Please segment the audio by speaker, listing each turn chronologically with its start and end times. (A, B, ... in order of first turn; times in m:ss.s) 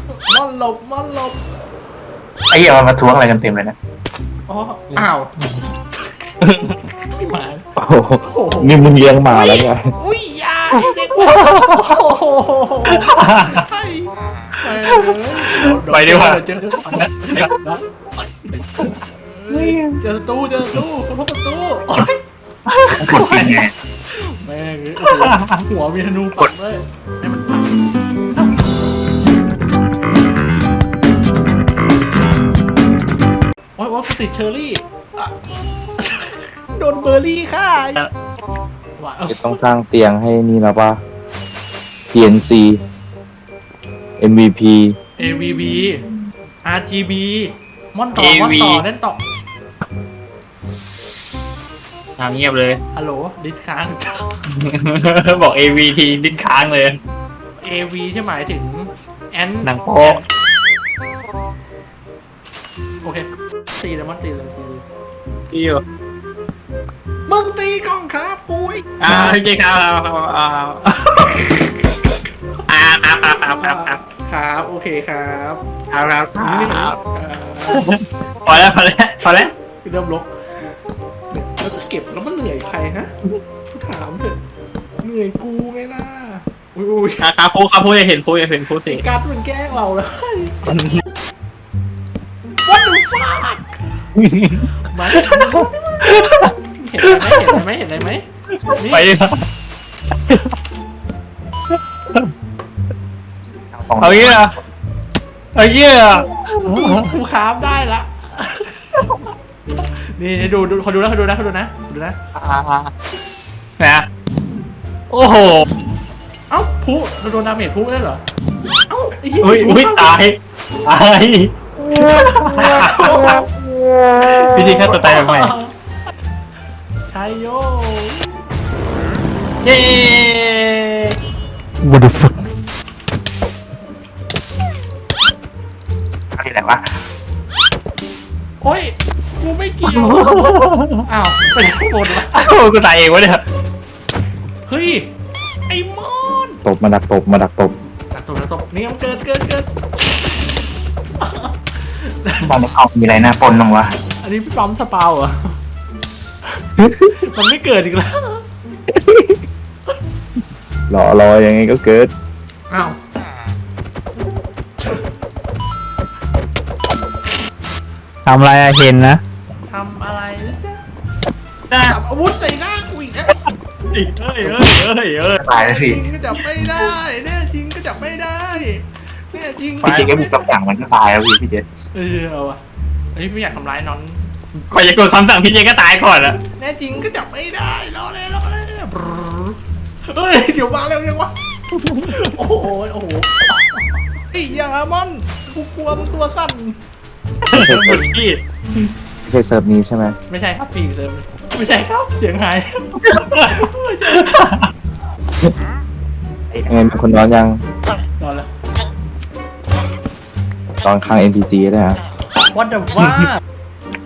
0:00.2-0:01.4 A
0:02.5-0:03.8 B
0:04.5-0:05.3 A
0:05.9-0:06.3 A
0:06.4-0:06.8 C
0:07.0-0:07.7 A
0:07.8-0:09.8 D
0:08.2-0:17.9 A
0:11.2-0:11.8 C
0:12.9-0:13.6 C
0:14.8-0:17.5 C
0:18.8-0:22.2 A
0:19.5-0:20.0 C
0:22.7-0:23.5 C
0:22.9-0:23.7 B
0:23.0-0:27.8 A
0:25.1-0:25.6 C
0:28.3-0:28.6 A
0:33.8-0:35.4 A
0:36.0-0:38.0 A
0:39.0-0:39.6 A
0:39.3-0:41.0 D
0:42.1-0:42.8 D
0:44.2-0:45.0 D
0:45.2-0:46.0 A
0:46.6-0:49.2 A
0:48.2-0:48.8 C
0:52.2-0:52.8 C
0:52.9-0:54.4 A
0:54.5-0:57.0 C
0:57.6-1:00.2 A
0:59.6-1:00.2 C
1:03.0-1:04.8 A
1:05.5-1:05.8 C
1:07.3-1:09.4 A
1:09.0-1:10.9 C
1:11.1-1:11.7 A
1:12.7-1:14.0 C
1:13.6-1:15.6 A
1:15.9-1:17.0 C
1:16.4-1:17.8 A
1:17.7-1:19.5 C
1:19.2-1:20.3 A
1:21.3-1:23.1 A
1:23.7-1:24.4 A
1:25.0-1:27.3 A
1:27.2-1:29.0 C
1:28.9-1:30.6 A
1:32.6-1:33.8 A
1:34.2-1:36.5 C
1:34.8-1:39.1 A
1:37.1-1:37.6 C
1:38.6-1:39.4 C
1:43.7-1:44.6 B
1:44.0-1:44.5 C
1:45.6-1:47.1 C
1:46.5-1:49.3 A
1:50.1-1:52.2 A
1:52.4-1:52.9 C
1:53.8-1:54.1 C
1:55.1-1:55.7 C
1:56.5-1:58.2 A
1:58.9-2:00.2 A
1:59.4-2:03.4 C
2:01.9-2:03.4 A
2:04.2-2:05.6 C
2:04.5-2:05.7 A
2:07.1-2:08.4 A
2:09.6-2:11.2 C
2:16.4-2:16.8 B
2:18.6-2:22.4 A
2:19.8-2:21.0 C
2:22.3-2:23.4 C
2:24.7-2:25.1 A
2:25.7-2:26.6 A
2:26.6-2:27.8 D
2:28.1-2:29.7 A
2:31.2-2:32.6 A
2:32.4-2:34.0 B
2:34.2-2:35.6 A
2:36.6-2:38.4 A
2:38.9-2:39.4 D
2:40.9-2:42.1 D
2:42.7-2:43.0 A
2:48.2-2:49.2 C
2:49.7-2:50.8 A
2:51.7-2:52.0 C
2:51.9-2:53.5 A
2:53.9-2:55.4 C
2:55.4-2:56.0 B
2:55.5-3:00.4 A
2:59.8-3:00.1 C
2:59.8-3:01.7 B
3:01.9-3:02.6 A
3:03.1-3:04.2 A
3:04.7-3:06.4 C
3:06.6-3:09.6 A
3:10.1-3:11.3 A
3:11.8-3:12.1 C
3:12.1-3:16.8 A
3:17.5-3:18.4 C
3:17.5-3:18.0 D
3:19.3-3:20.2 D
3:20.3-3:22.9 A
3:23.0-3:24.7 C
3:23.5-3:24.3 A
3:26.5-3:26.8 B
3:26.7-3:27.6 D
3:28.2-3:28.5 A
3:30.8-3:32.0 D
3:32.5-3:33.4 A